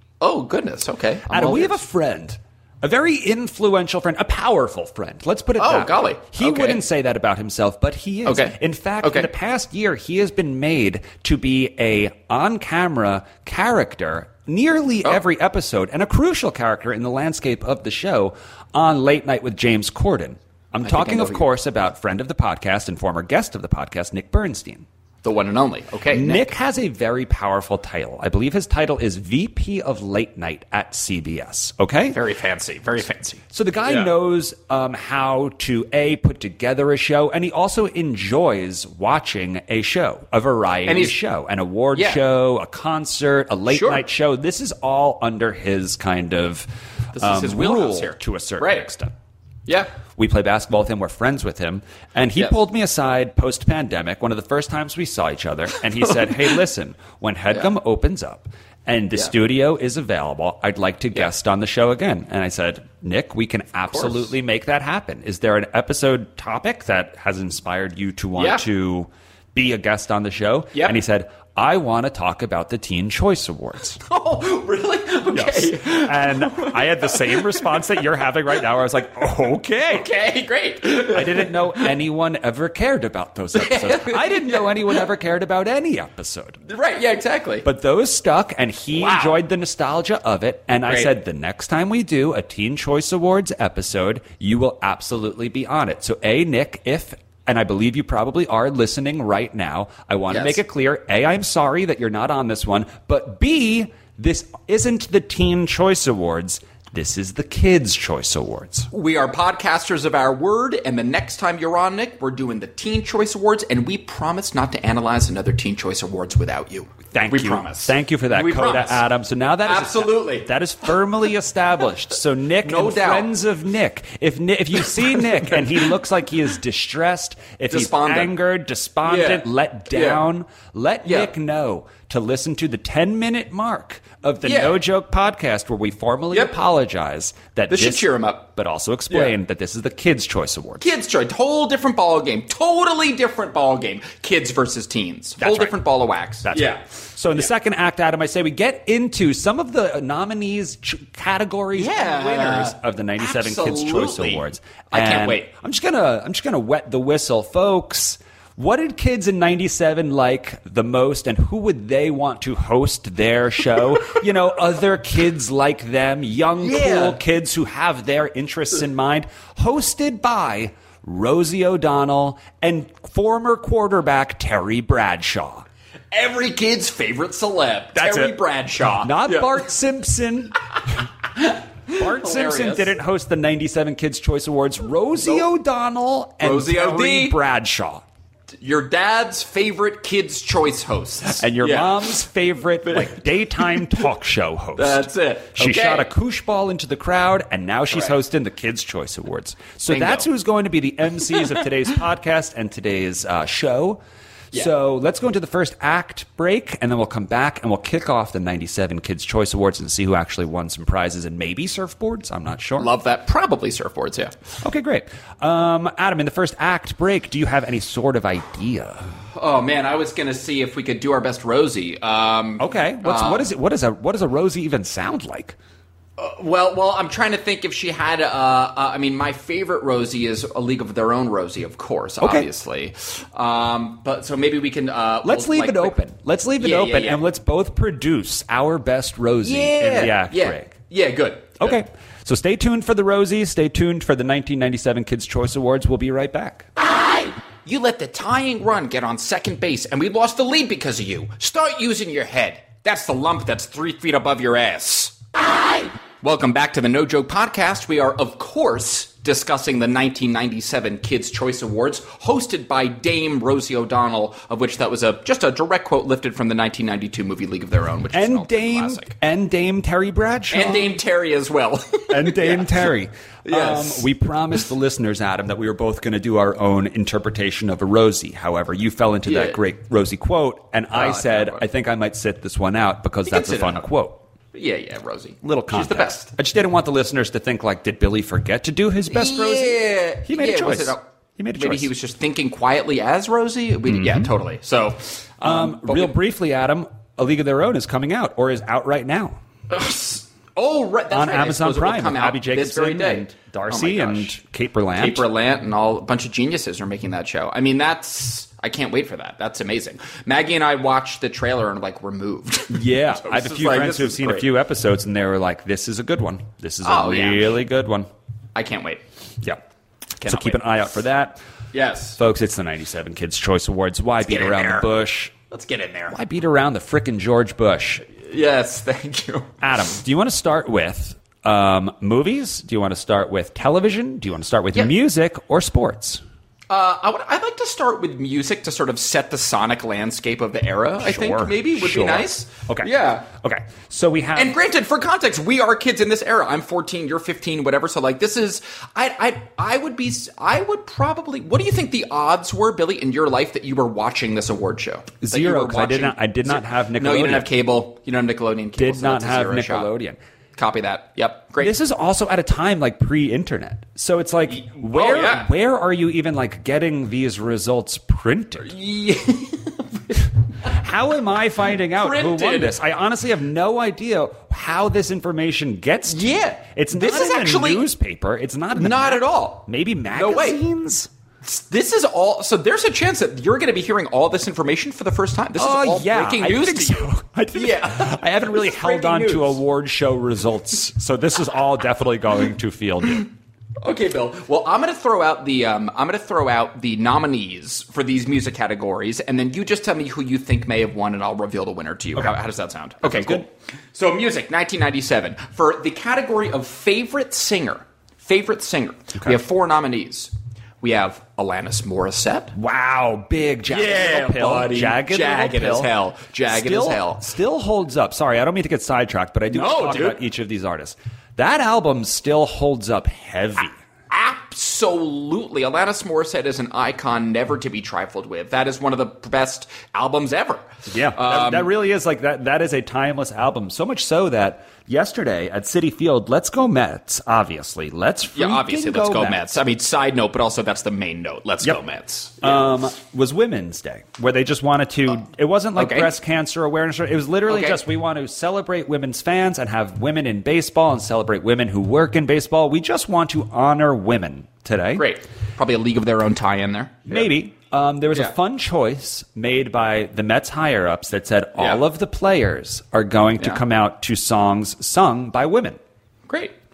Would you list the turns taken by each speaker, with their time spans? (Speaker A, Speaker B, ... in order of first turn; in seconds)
Speaker A: 0.2-1.8, 5.6-6.8, 8.3-9.3, 20.8-21.5, 25.2-26.5, 32.1-34.1, 40.9-41.2, 41.9-42.2, 43.7-44.0, 47.1-48.9, 49.7-49.9, 63.9-64.3, 68.4-68.6, 74.1-78.0, 79.9-81.9, 83.5-84.9, 86.7-87.7, 88.9-89.4, 90.9-91.1, 100.3-100.6, 108.9-119.0, 119.6-120.5, 122.6-123.3, 127.7-128.3, 129.1-130.2, 131.0-131.3, 134.4-134.8, 137.7-138.5, 139.1-139.3, 140.8-146.8, 151.8-155.5, 166.6-167.2, 176.1-179.6, 181.4-182.9, 186.4-187.4, 188.6-192.1, 192.8-193.2, 194.8-196.1, 199.9-200.3, 212.8-214.3, 219.3-223.5, 226.2-236.0, 236.6-237.2, 239.4-241.8, 247.1-269.1, 270.5-272.9, 273.4-274.1, 279.3-279.6, 280.9-281.6, 283.3-283.9, 284.5-286.3, 289.1-291.0, 291.6-296.1, 299.7-304.4, 305.0-314.5, 316.8-317.6, 318.6-319.0, 320.2-320.6, 321.7-322.2, 324.2-324.9, 325.5-326.2, 328.2-329.6, 336.7-343.3, 344.4-359.9, 360.6-361.8, 364.5-365.5, 368.6-370.2, 371.9-372.8, 376.1-377.9, 378.8-380.6, 381.4-389.6, 393.8-412.6, 413.7-417.3, 419.5-420.2, 424.1-431.7, 438.3-442.7, 445.8-446.1, 447.5-447.8, 455.0-457.3, 461.6-461.8, 466.3-466.5
Speaker B: 1.3-24.9, 26.1-32.2, 33.5-49.1, 50.1-74.0, 75.3-80.1, 81.0-86.6, 87.6-108.9, 117.1-140.9, 145.4-145.8, 146.4-175.7, 177.9-178.4, 179.0-181.1, 181.9-188.0, 191.3-204.0, 204.5-212.9, 214.6-219.1, 222.6-225.6, 232.2-232.5, 235.2-240.8, 241.6-246.7, 268.1-270.9, 272.1-284.2, 285.4-291.9, 293.9-294.3, 295.4-299.4, 301.1-305.3, 312.7-318.1, 320.2-321.4, 322.2-325.3, 326.1-328.1, 329.6-336.2, 341.0-344.6, 355.2-357.5, 358.8-360.2, 361.6-368.7, 370.6-381.1, 385.6-393.3, 403.0-403.4, 412.5-415.9, 416.5-423.8, 430.9-439.4, 442.4-455.1, 457.1-465.8